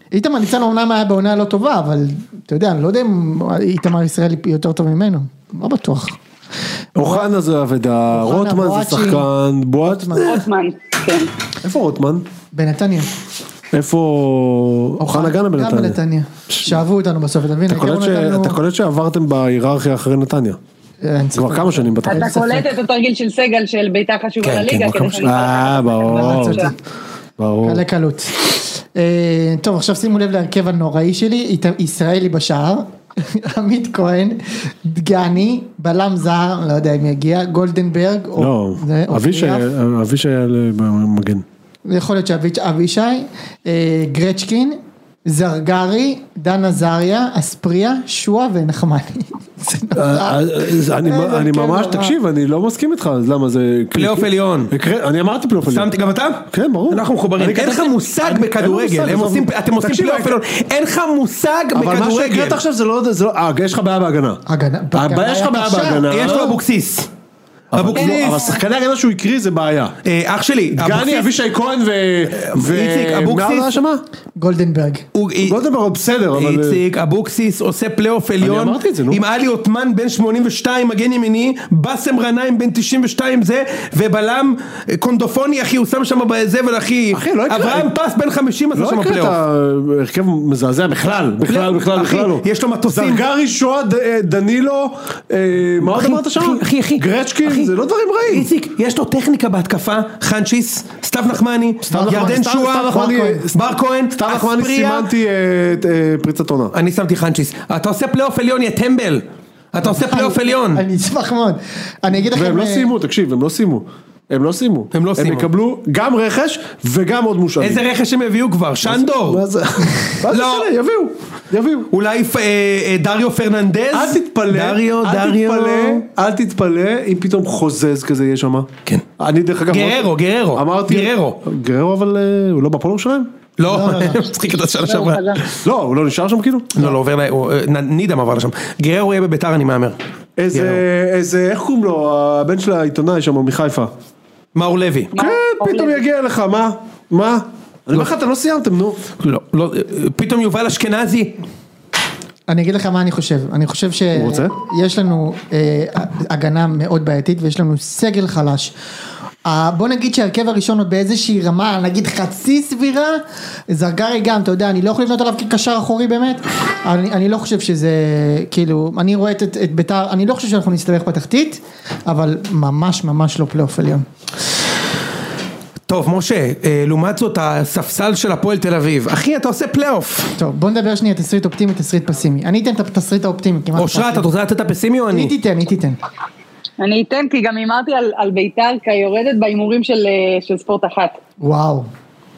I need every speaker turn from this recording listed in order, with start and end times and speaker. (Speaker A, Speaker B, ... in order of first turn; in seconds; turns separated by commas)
Speaker A: 0.1-6.2, Speaker B: 7.0-10.4, Speaker A: 7.0-7.3, Speaker A: 8.1-9.3, Speaker A: 9.8-10.4, Speaker C: 10.2-11.3, Speaker B: 11.6-12.2, Speaker A: 12.5-13.1, Speaker B: 13.7-16.0, Speaker A: 15.0-18.6, Speaker B: 16.5-16.8, Speaker B: 17.7-20.6, Speaker A: 21.0-22.7, Speaker B: 21.4-22.4, Speaker C: 22.1-26.7, Speaker D: 24.4-25.3, Speaker B: 25.1-26.7, Speaker A: 26.1-26.8, Speaker B: 27.4-27.8, Speaker A: 27.6-39.7, Speaker B: 38.4-41.5, Speaker A: 41.9-52.1, Speaker B: 50.0-56.0, Speaker D: 53.9-54.7, Speaker D: 55.7-62.6, Speaker B: 56.5-60.4, Speaker B: 61.7-64.4, Speaker A: 64.5-66.1, Speaker B: 65.0-66.6, Speaker D: 66.1-67.1, Speaker D: 67.7-68.4, Speaker B: 67.7-70.0, Speaker C: 67.9-68.6, Speaker D: 70.0-71.3, Speaker B: 70.8-74.0, Speaker D: 72.3-73.8, Speaker A: 74.4-75.1, Speaker D: 75.2-75.6, Speaker B: 75.4-76.8, Speaker D: 76.3-89.4, Speaker B: 78.4-79.2, Speaker B: 87.1-87.9, Speaker B: 88.7-98.5, Speaker D: 91.4-93.2, Speaker D: 95.8-97.7, Speaker D: 98.3-105.1, Speaker B: 101.9-106.7, Speaker A: 101.9-103.5, Speaker D: 106.7-110.8, Speaker A: 109.8-112.9, Speaker B: 112.3-117.8, Speaker D: 114.9-115.5, Speaker D: 117.6-119.4, Speaker B: 118.8-121.9, Speaker D: 120.3-120.7, Speaker D: 121.9-126.0, Speaker B: 123.9-133.3, Speaker D: 129.7-131.4, Speaker D: 133.6-135.6, Speaker A: 133.7-134.2, Speaker C: 134.9-135.4, Speaker B: 135.6-136.9, Speaker D: 136.7-140.0, Speaker B: 140.4-143.9, Speaker D: 140.5-140.8, Speaker D: 144.6-145.1, Speaker C: 145.1-146.0, Speaker B: 145.1-149.0, Speaker D: 149.2-151.3, Speaker A: 152.5-158.7, Speaker B: 154.1-154.5, Speaker A: 159.4-174.1, Speaker D: 175.9-180.3, Speaker A: 180.4-184.3, Speaker D: 183.8-185.3, Speaker A: 185.1-186.0, Speaker C: 186.8-191.2, Speaker A: 191.4-191.9